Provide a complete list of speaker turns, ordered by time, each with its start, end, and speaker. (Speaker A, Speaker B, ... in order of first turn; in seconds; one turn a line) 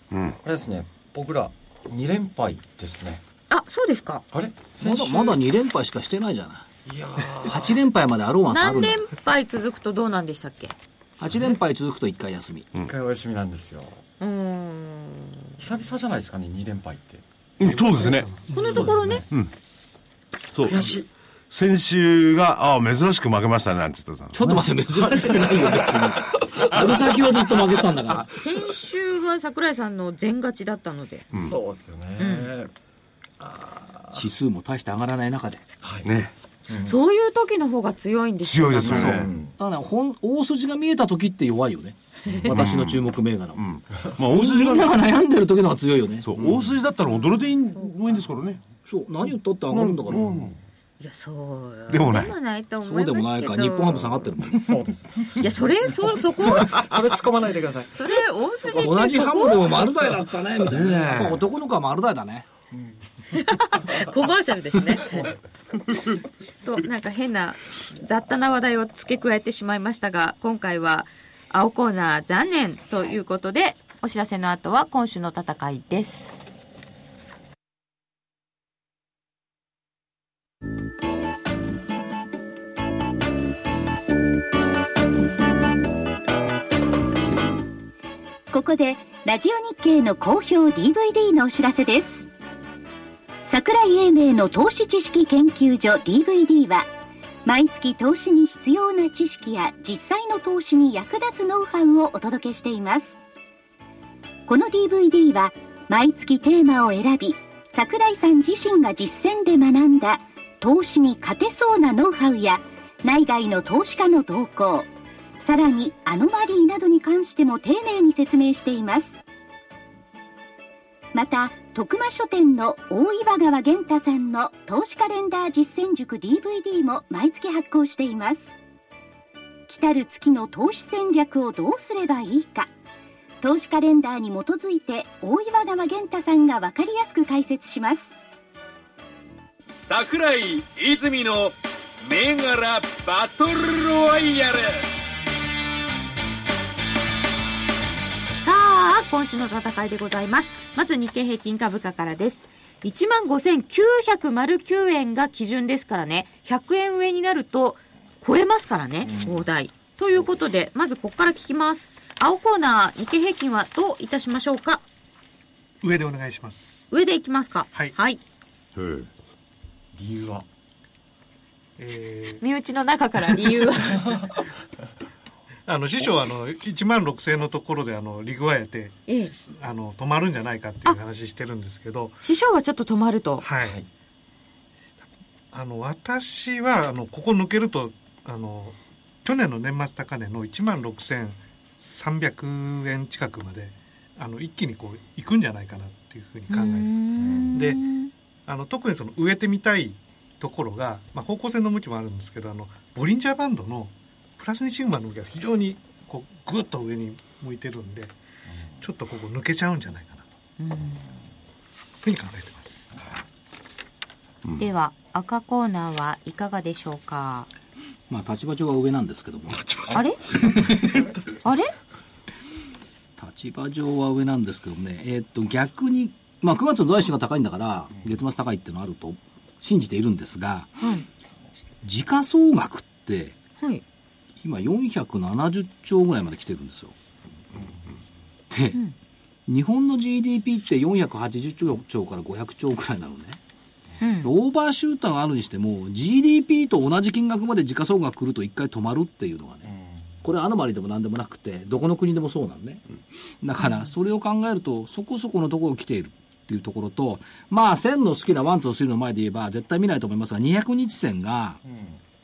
Speaker A: 0.1-0.4
Speaker B: 0.4-3.2
Speaker C: 3.5-4.2
Speaker B: 4.3-5.4
Speaker D: 4.8-6.7
Speaker B: 6.8-7.8
Speaker D: 7.4-9.0
Speaker C: 8.5-10.8
Speaker D: 11.2-12.7
Speaker B: 12.7-14.0
Speaker C: 14.2-15.6
Speaker B: 15.6-17.2
Speaker A: 17.6-19.5
Speaker E: 17.6-19.2
Speaker C: 18.5-19.2
Speaker A: 20.5-27.6
Speaker B: 20.6-21.1
Speaker D: 24.3-28.3
Speaker C: 28.3-31.3
Speaker B: 31.3-32.7
Speaker C: 32.2-32.5
Speaker B: 33.4-34.3
Speaker D: 34.1-35.6
Speaker B: 35.8-36.1
Speaker A: 36.0-36.3
Speaker B: 36.7-37.0
Speaker C: 36.7-39.2
Speaker A: 38.4-39.3
Speaker B: 38.8-39.5
Speaker D: 38.9-43.6
Speaker A: 42.5-45.1
Speaker D: 44.3-46.3
Speaker A: 46.2-48.6
Speaker B: 46.4-46.8
Speaker C: 47.0-48.2
Speaker D: 48.9-50.3
Speaker A: 49.7-50.5
Speaker B: 50.1-50.6
Speaker C: 51.0-54.2
Speaker A: 51.9-52.4
Speaker D: 52.8-54.7
Speaker B: 54.5-57.9
Speaker C: 55.4-56.8
Speaker C: 57.9-59.8
Speaker D: 58.7-62.5
Speaker A: 60.7-61.4
Speaker C: 63.3-65.3
Speaker C: 66.6-76.5
Speaker F: 88.5-92.2
Speaker F: 93.5-96.9
Speaker F: 97.4-103.1
Speaker F: 104.5-119.2
Speaker F: 121.1-128.5
Speaker F: 129.7-132.7
Speaker F: 133.4-138.1
Speaker G: 139.8-144.8
Speaker C: 148.4-164.8
Speaker B: 159.0-159.4
Speaker E: 165.8-166.9
Speaker C: 166.9-168.2
Speaker A: 168.7-169.1
Speaker B: 169.9-170.4
Speaker E: 171.8-172.4
Speaker C: 172.4-174.4
Speaker E: 175.7-182.2
Speaker C: 179.1-179.3
Speaker C: 182.2-183.4
Speaker E: 183.4-183.8
Speaker E: 185.5-197.8
Speaker C: 196.5-198.1
Speaker B: 197.2-197.5
Speaker E: 198.4-208.1
Speaker E: 208.8-210.2
Speaker C: 210.6-211.0
Speaker E: 212.0-212.9
Speaker B: 212.9-213.2
Speaker C: 214.6-217.5
Speaker D: 218.1-219.7
Speaker A: 219.7-219.9
Speaker C: 219.9-220.2
Speaker D: 220.4-221.0
Speaker B: 220.7-221.2
Speaker C: 221.4-221.7
Speaker D: 223.2-230.7
Speaker C: 230.8-231.1
Speaker D: 231.8-233.3
Speaker D: 234.4-236.9
Speaker D: 238.5-238.8
Speaker D: 239.5-243.4
Speaker C: 244.0-244.3
Speaker D: 244.2-249.7
Speaker B: 249.7-250.0
Speaker D: 250.2-252.8
Speaker D: 253.4-261.6
Speaker C: 253.6-253.9
Speaker B: 261.6-262.0